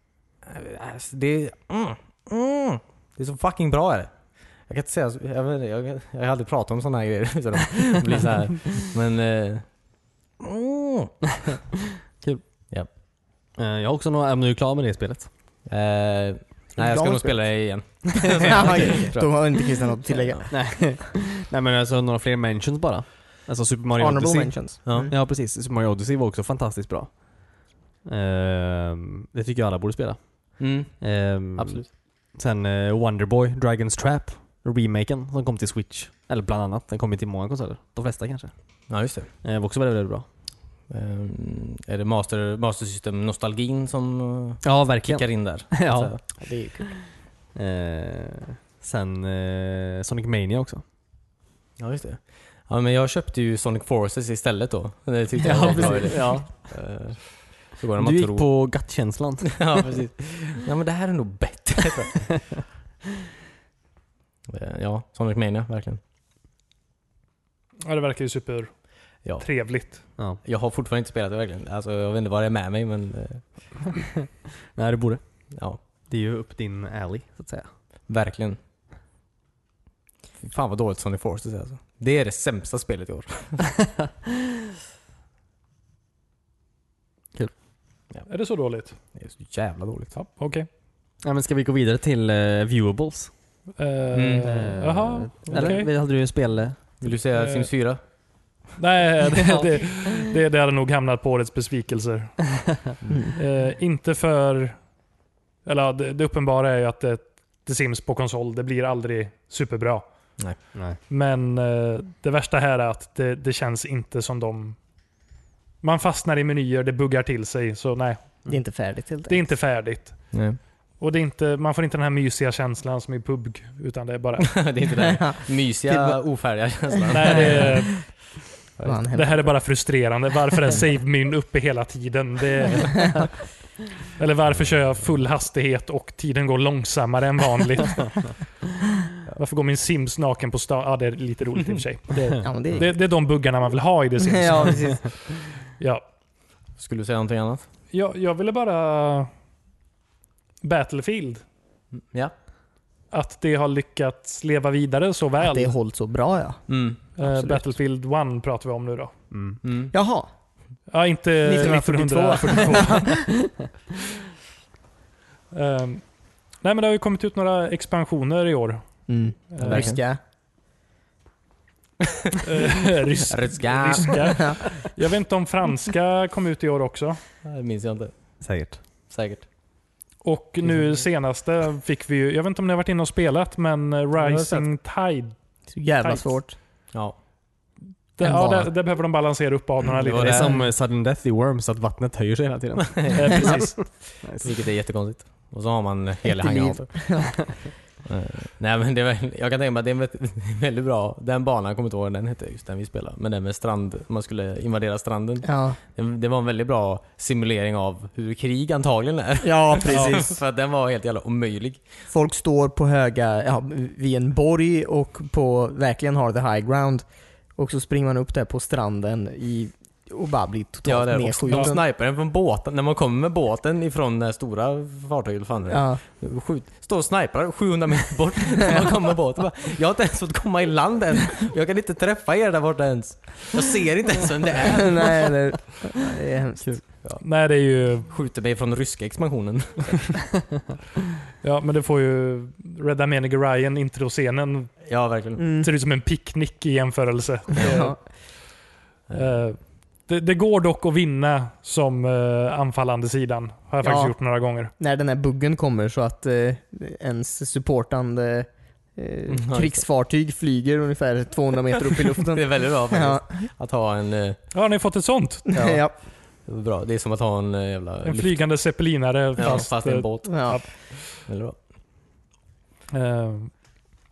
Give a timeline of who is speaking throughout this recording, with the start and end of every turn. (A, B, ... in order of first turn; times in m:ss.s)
0:00.4-0:11.2 A
0:13.6-0:15.3 B
0:15.6-0:19.6 A
0:16.8-0:17.6 C
0:18.2-0:19.0 B
0:18.3-0:20.6 C
0:20.5-0:40.3 B
0:24.0-0:25.1 C
0:24.8-0:25.1 A
0:30.6-0:31.9 A
0:38.9-0:39.3 A
0:40.9-0:46.2 A
0:44.6-0:46.4 B
0:46.4-0:47.0 C
0:47.5-0:50.8 B
0:51.8-0:58.8 A
0:55.4-0:56.5 B
0:55.5-0:56.4 C
0:58.0-0:59.8 B
0:59.5-1:02.5 A
1:04.5-1:06.0 A
1:07.8-1:10.0 D
1:09.2-1:13.7 A
1:14.7-1:17.7 B
1:15.5-1:15.8 A
1:18.1-1:18.6 A
1:20.4-1:23.7 A
1:28.2-1:29.0 D
1:29.1-1:30.1 A
1:30.1-1:30.7 D
1:31.2-1:33.3 B
1:33.8-1:35.9 D
1:34.1-1:34.7 A
1:34.4-1:36.8 B
1:35.5-1:35.8 A
1:37.0-1:38.0 A
1:37.4-1:37.7 D
1:38.8-1:42.8 D
1:43.1-1:43.4 C
1:43.4-1:44.9 D
1:45.6-1:50.3 D
1:50.7-1:51.0 B
1:51.1-1:54.8 D
1:55.8-1:58.6 D
1:58.4-1:59.5 C
1:59.3-2:04.8 D
2:00.3-2:00.6 A
2:04.4-2:08.0 A
2:05.0-2:06.2 C
2:07.1-2:07.8 C
2:07.1-2:08.4 D
2:08.8-2:09.5 C
2:09.1-2:13.5 D
2:14.1-2:18.5 D
2:19.3-2:26.0 D
2:22.4-2:22.9 C
2:24.2-2:25.1 C
2:26.8-2:27.6 A
2:27.9-2:29.3 D
2:30.6-2:31.4 D
2:31.9-2:32.3 A
2:33.1-2:35.7 D
2:35.4-2:37.6 C
2:36.7-2:37.0 A
2:37.2-2:39.2 D
2:39.3-2:39.6 B
2:39.6-2:39.9 A
2:39.9-2:40.3 C
2:40.9-2:43.4 D
2:41.4-2:43.3 C
2:45.5-2:50.0 D
2:49.1-2:50.2 C
2:49.6-2:50.0 A
2:52.4-2:57.2 D
2:53.3-2:54.6 A
2:57.4-2:58.4 A
2:58.4-2:58.8 B
2:59.1-2:59.4 A
3:00.2-3:05.3 D
3:04.2-3:04.6 A
3:05.7-3:06.6 C
3:06.0-3:06.4 D
3:06.9-3:07.2 A
3:08.2-3:10.7 D
3:08.2-3:08.7 C
3:10.0-3:10.6 A
3:10.1-3:13.7 B
3:13.0-3:31.8 A
3:13.1-3:13.8 D
3:14.2-3:14.5 B
3:16.2-3:17.3 C
3:25.4-3:25.8 C
3:29.4-3:30.4 C
3:29.9-3:30.2 D
3:32.1-3:41.8 C
3:40.8-3:55.3 A
3:45.7-3:46.0 C
3:54.8-3:56.9 C
3:56.6-3:57.2 A
3:57.2-3:58.1 D
3:58.0-4:00.2 A
4:01.4-4:04.9 D
4:04.8-4:05.4 A
4:05.4-4:05.7 C
4:05.5-4:08.6 D
4:07.6-4:07.8 A
4:07.6-4:08.0 C
4:09.1-4:09.4 A
4:09.1-4:14.7 D
4:13.8-4:23.5 C
4:19.3-4:19.8 A
4:22.2-4:24.4 A
4:24.5-4:25.4 D
4:25.5-4:25.9 C
4:25.5-4:28.6 A
4:28.0-4:31.0 D
4:29.3-4:31.6 A
4:30.2-4:30.6 C
4:32.9-4:33.6 D